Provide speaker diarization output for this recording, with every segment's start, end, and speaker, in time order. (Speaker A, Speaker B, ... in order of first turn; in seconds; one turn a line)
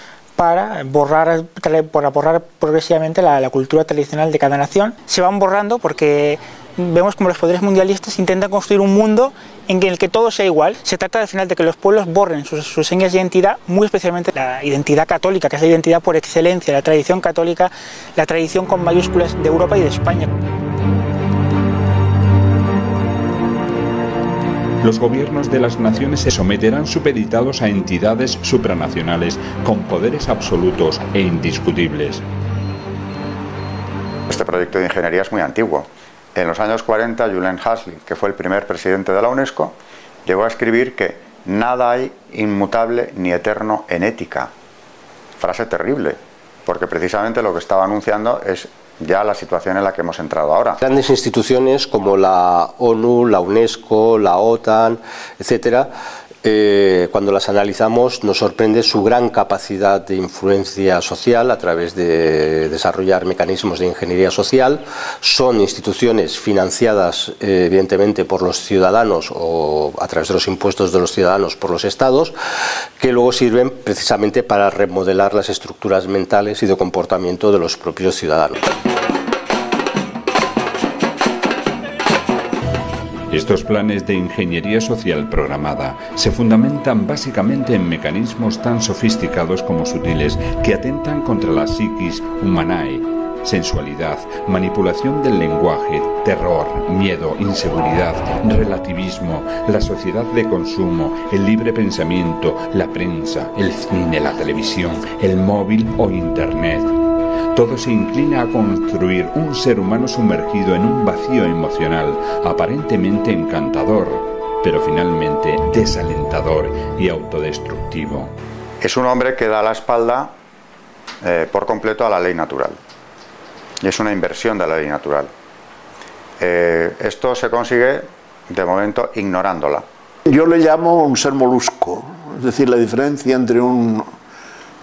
Speaker A: 0.4-20.3
Speaker B: 24.8-32.2
Speaker C: 34.3-44.5
Speaker C: 45.4-50.8
Speaker D: 50.8-55.9
Speaker D: 56.4-72.3
Speaker D: 73.0-78.6
Speaker B: 83.3-107.0
Speaker B: 107.5-118.3
Speaker C: 118.8-120.3
Speaker C: 121.2-122.8
Speaker C: 123.8-125.3
Speaker C: 126.4-129.8
Speaker E: 130.3-134.1